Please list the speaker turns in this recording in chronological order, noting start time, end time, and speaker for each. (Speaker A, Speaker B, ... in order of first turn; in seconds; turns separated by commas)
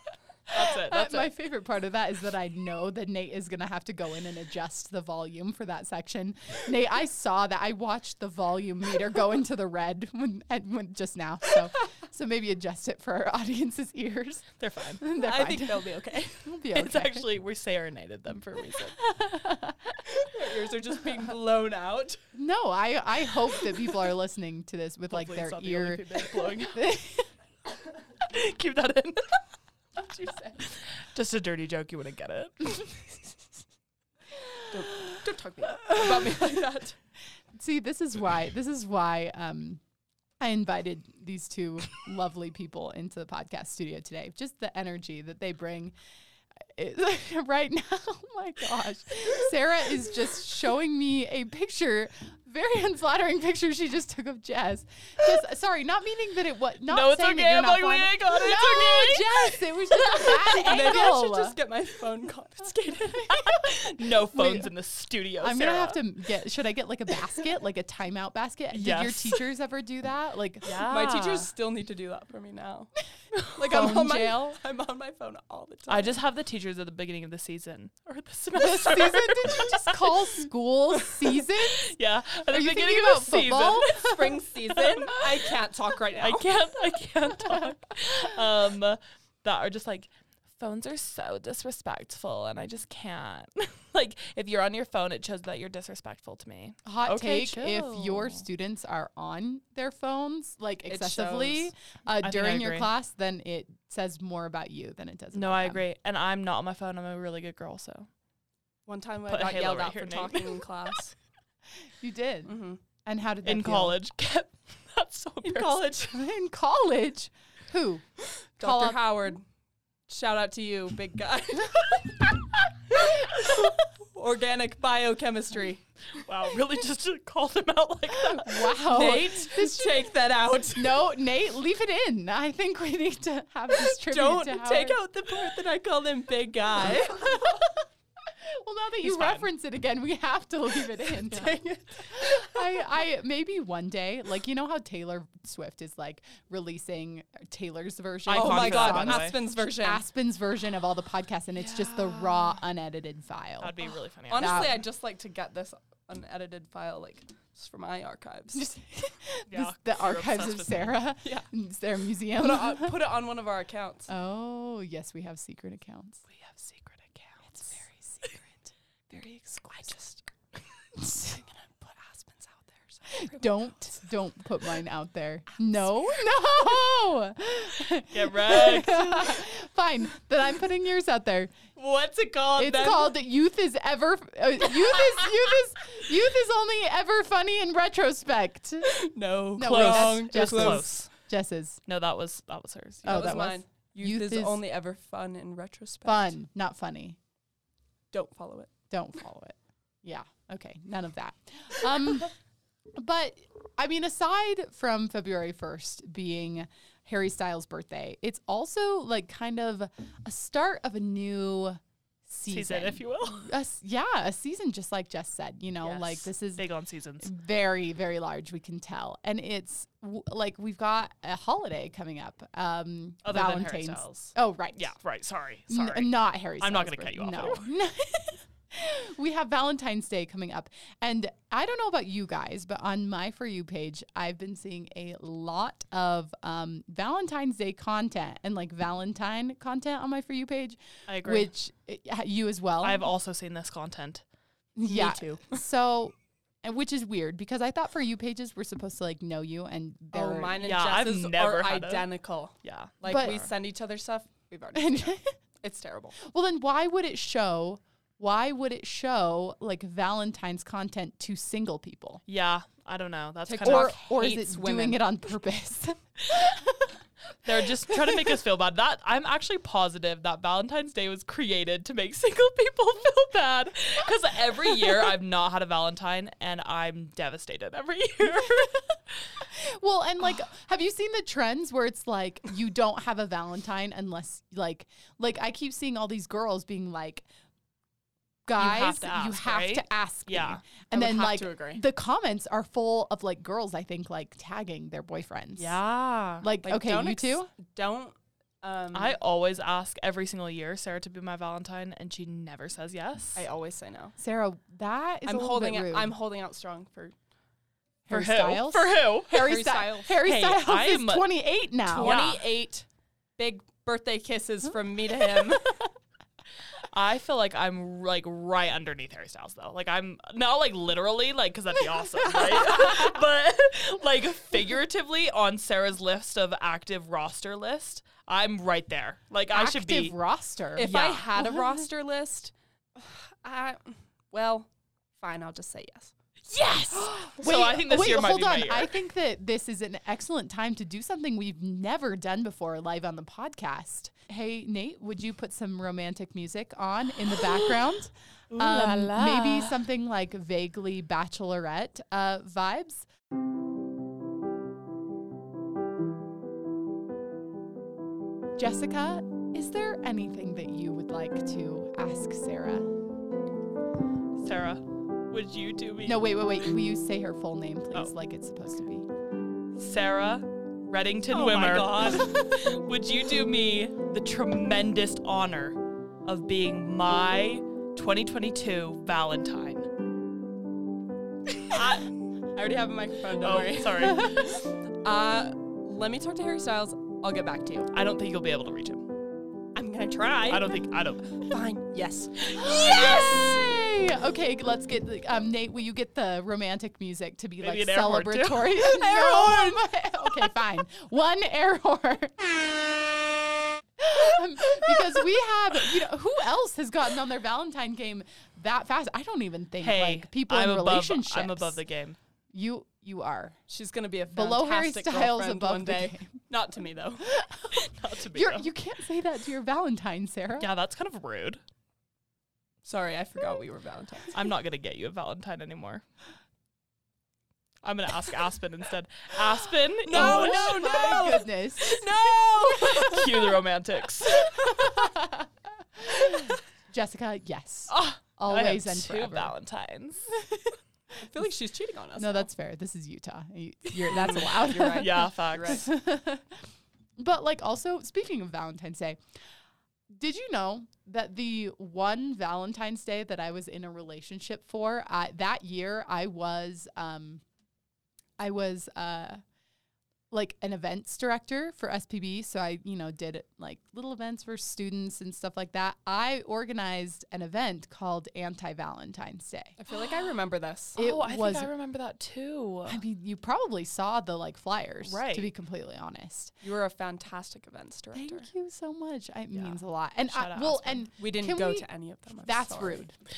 Speaker A: 0.5-1.3, Speaker B: 0.5-17.3, Speaker A: 14.6-15.0, Speaker C: 15.2-16.5, Speaker A: 16.7-19.0, Speaker B: 19.0-20.0, Speaker C: 20.1-22.2, Speaker B: 22.3-27.3, Speaker A: 25.1-26.9, Speaker A: 28.2-29.4, Speaker C: 30.0-30.6, Speaker A: 31.0-33.3, Speaker C: 34.7-37.0, Speaker B: 37.5-39.8, Speaker B: 40.4-45.9, Speaker B: 46.6-61.6, Speaker A: 56.9-60.7, Speaker C: 60.6-63.4, Speaker A: 63.3-66.0, Speaker B: 64.0-64.7, Speaker B: 65.4-70.8, Speaker A: 68.7-69.4, Speaker A: 70.7-71.5, Speaker C: 70.8-72.9, Speaker C: 73.5-76.2, Speaker B: 73.6-74.6, Speaker A: 75.9-80.4, Speaker B: 78.5-82.0, Speaker A: 81.0-85.2, Speaker B: 82.5-84.3, Speaker C: 84.0-86.5, Speaker A: 86.2-98.5, Speaker B: 96.8-105.8, Speaker C: 100.9-101.7, Speaker A: 102.2-102.9, Speaker A: 105.3-108.1, Speaker C: 108.9-111.2, Speaker A: 109.3-110.7, Speaker B: 112.0-114.0, Speaker C: 112.5-112.8, Speaker A: 113.5-116.1, Speaker C: 115.4-116.0, Speaker B: 116.0-118.0, Speaker B: 118.6-119.0, Speaker C: 118.6-119.4, Speaker C: 120.1-122.4, Speaker C: 122.9-125.8, Speaker A: 126.2-128.8, Speaker B: 128.1-130.1, Speaker C: 128.8-131.1, Speaker B: 130.7-135.0, Speaker C: 133.7-137.6, Speaker B: 137.1-137.7, Speaker B: 138.3-153.8, Speaker A: 139.0-139.5, Speaker C: 141.3-142.6, Speaker A: 148.3-149.4, Speaker C: 148.3-150.0, Speaker A: 151.6-152.6, Speaker A: 153.6-154.8, Speaker C: 154.3-158.7, Speaker B: 154.4-154.8, Speaker B: 158.6-163.0, Speaker A: 159.5-160.9, Speaker C: 162.3-164.1, Speaker B: 164.1-166.2, Speaker A: 166.3-167.4, Speaker B: 167.7-168.7, Speaker C: 169.1-170.3, Speaker B: 171.0-171.4, Speaker C: 171.0-173.7, Speaker B: 173.1-181.5, Speaker A: 178.1-179.4, Speaker C: 181.8-183.2, Speaker B: 182.6-188.9, Speaker C: 188.8-191.0, Speaker B: 189.6-191.8, Speaker A: 189.6-191.1, Speaker A: 191.9-193.5, Speaker B: 193.0-194.6, Speaker C: 193.1-196.3, Speaker B: 196.1-197.2, Speaker C: 198.1-198.7, Speaker B: 198.9-202.3, Speaker B: 203.0-216.6, Speaker A: 212.5-213.5, Speaker A: 215.8-217.3, Speaker B: 217.2-224.9, Speaker A: 223.2-227.7, Speaker B: 225.7-243.1, Speaker A: 241.1-241.5, Speaker A: 242.8-244.2, Speaker B: 244.8-250.6, Speaker C: 244.8-245.6, Speaker C: 250.1-256.2, Speaker A: 250.6-253.5, Speaker B: 253.1-253.4, Speaker B: 254.8-255.3, Speaker B: 256.2-262.2, Speaker A: 262.3-263.9, Speaker B: 263.5-266.9, Speaker C: 263.6-265.0, Speaker A: 267.4-279.0, Speaker B: 267.9-268.4, Speaker B: 279.4-287.3, Speaker B: 288.5-295.8, Speaker A: 288.6-290.6, Speaker C: 290.9-291.8, Speaker A: 295.6-296.5, Speaker B: 296.4-297.5, Speaker C: 296.6-299.2, Speaker A: 298.9-303.4, Speaker C: 303.4-304.2, Speaker B: 304.2-306.1, Speaker C: 305.3-307.1, Speaker B: 308.1-312.2, Speaker A: 308.1-309.7, Speaker C: 309.4-310.2, Speaker A: 310.2-311.3, Speaker A: 311.9-312.5, Speaker C: 311.9-312.9, Speaker C: 313.4-315.9, Speaker A: 316.9-330.1, Speaker B: 329.5-331.4, Speaker C: 330.8-336.1, Speaker A: 330.8-331.3, Speaker B: 336.5-353.1, Speaker A: 336.9-339.0, Speaker A: 348.5-349.9, Speaker B: 358.6-362.9, Speaker A: 364.4-366.3, Speaker B: 366.1-369.1, Speaker A: 369.8-379.9, Speaker C: 371.3-372.6, Speaker A: 381.7-382.0, Speaker C: 381.7-384.2, Speaker A: 383.4-384.6, Speaker B: 384.1-384.4, Speaker C: 385.0-387.9, Speaker A: 387.9-389.1, Speaker C: 389.7-390.8, Speaker A: 390.5-391.5, Speaker C: 391.4-393.2, Speaker A: 392.5-393.4, Speaker B: 392.6-402.7, Speaker A: 397.6-399.2, Speaker C: 399.2-399.9, Speaker B: 404.0-411.8, Speaker A: 409.8-412.2, Speaker B: 412.5-413.6, Speaker C: 413.7-417.3, Speaker B: 414.3-416.4, Speaker B: 417.3-420.7, Speaker A: 417.8-418.7, Speaker A: 420.6-421.6, Speaker C: 422.8-424.4, Speaker A: 424.3-426.0, Speaker A: 427.8-431.0, Speaker C: 430.1-433.2, Speaker B: 430.1-432.1, Speaker A: 432.6-434.8, Speaker B: 434.6-439.5, Speaker A: 437.9-440.3, Speaker B: 440.3-440.7, Speaker C: 441.2-442.5, Speaker B: 442.2-446.6, Speaker C: 444.1-445.8, Speaker A: 444.9-445.8, Speaker B: 447.2-449.2, Speaker B: 450.1-457.4, Speaker B: 458.4-459.4, Speaker B: 460.3-469.8, Speaker C: 469.8-471.0, Speaker A: 471.0-473.0, Speaker B: 471.0-471.7, Speaker B: 472.9-476.6, Speaker A: 475.0-475.5, Speaker C: 476.6-478.5, Speaker B: 478.1-481.9, Speaker A: 479.5-481.0, Speaker C: 481.2-483.1, Speaker B: 482.4-483.1